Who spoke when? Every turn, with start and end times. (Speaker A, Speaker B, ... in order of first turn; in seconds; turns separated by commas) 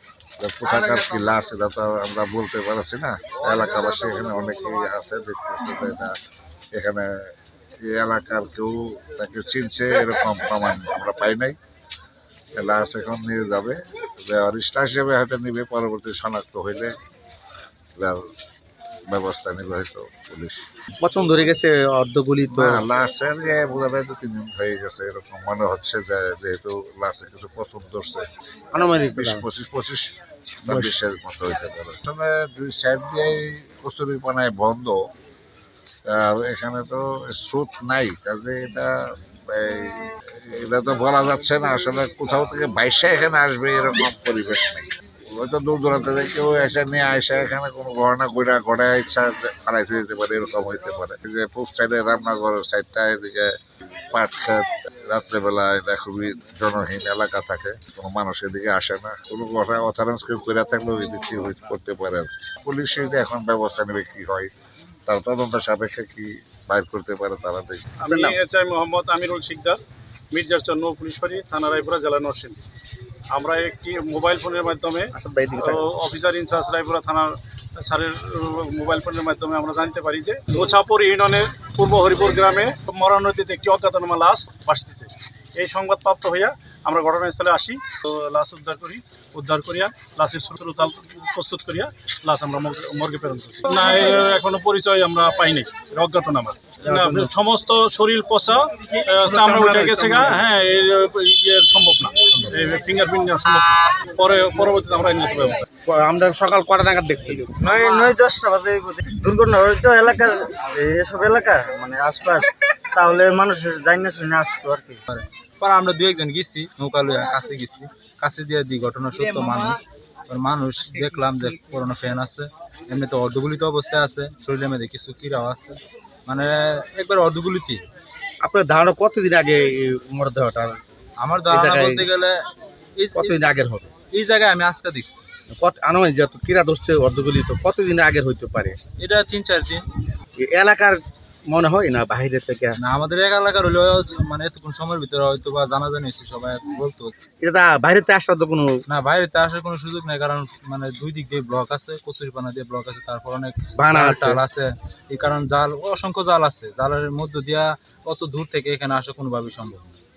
Speaker A: 0.4-6.1, Speaker A: 6.7-7.1, Speaker A: 7.8-11.6, Speaker A: 12.6-16.9, Speaker A: 18.0-18.2, Speaker A: 19.1-20.6, Speaker B: 21.0-22.8, Speaker A: 22.5-28.3, Speaker B: 28.7-29.4, Speaker A: 29.1-35.0, Speaker B: 30.7-30.9, Speaker A: 36.1-53.5, Speaker A: 54.1-64.5, Speaker A: 65.1-67.9, Speaker C: 68.0-69.8, Speaker B: 68.1-68.4, Speaker C: 70.3-72.6, Speaker C: 73.3-75.1, Speaker B: 75.1-75.8, Speaker C: 75.6-105.7, Speaker B: 96.8-97.3, Speaker D: 99.3-100.4, Speaker B: 105.9-107.7, Speaker E: 107.6-115.0, Speaker D: 115.1-127.8, Speaker B: 128.4-130.8, Speaker D: 131.2-132.4, Speaker B: 131.5-132.1, Speaker D: 133.0-133.5, Speaker B: 133.2-133.9, Speaker D: 134.1-135.2, Speaker B: 135.6-138.8, Speaker D: 139.0-139.8, Speaker B: 140.4-142.8, Speaker D: 142.8-147.1, Speaker B: 147.4-148.8, Speaker D: 148.9-160.0, Speaker B: 153.8-154.4